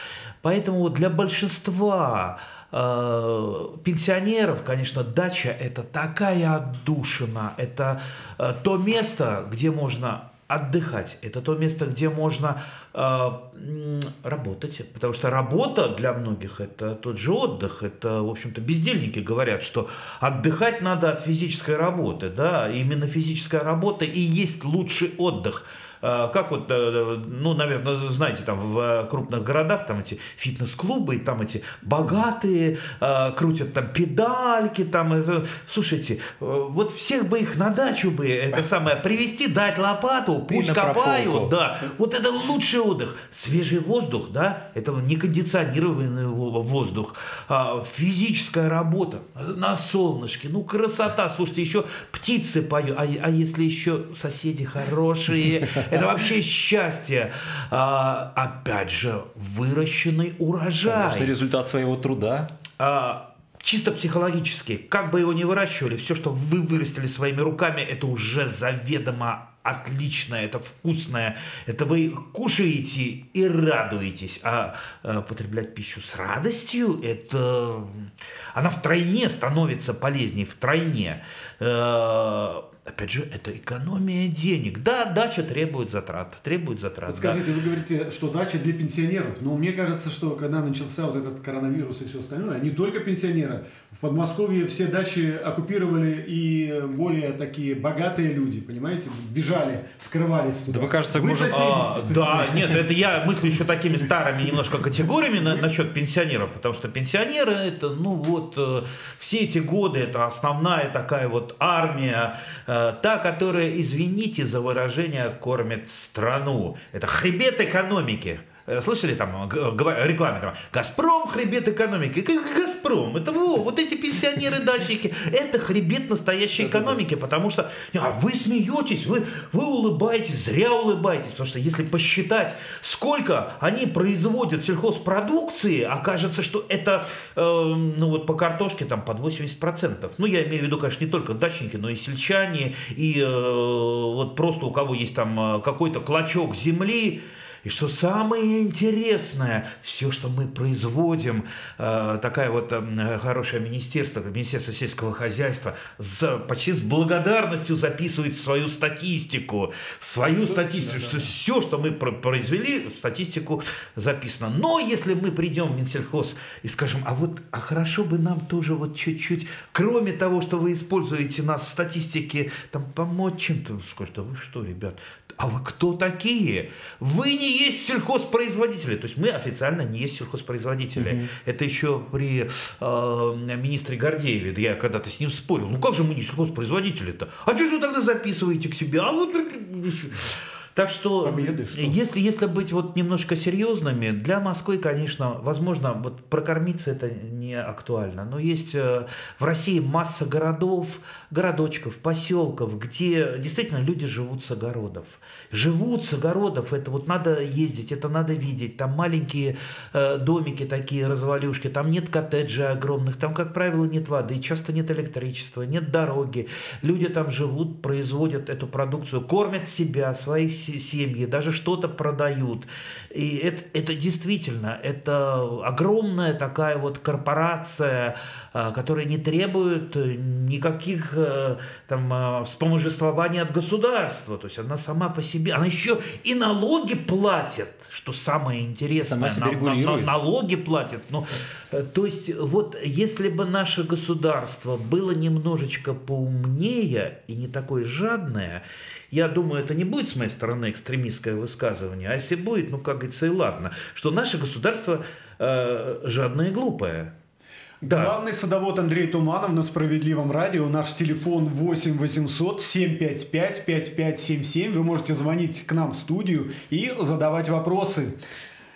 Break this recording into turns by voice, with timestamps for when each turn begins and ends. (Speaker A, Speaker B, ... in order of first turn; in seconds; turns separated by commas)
Speaker A: 0.4-61.3, Speaker B: 40.5-41.5, Speaker B: 60.9-62.5, Speaker A: 62.8-87.4, Speaker C: 87.1-102.8, Speaker B: 100.7-101.7, Speaker A: 101.5-257.1, Speaker B: 126.6-126.9, Speaker C: 160.7-161.3, Speaker B: 180.9-181.3, Speaker C: 191.2-192.0, Speaker B: 239.0-240.1, Speaker C: 257.8-268.2, Speaker A: 257.8-258.1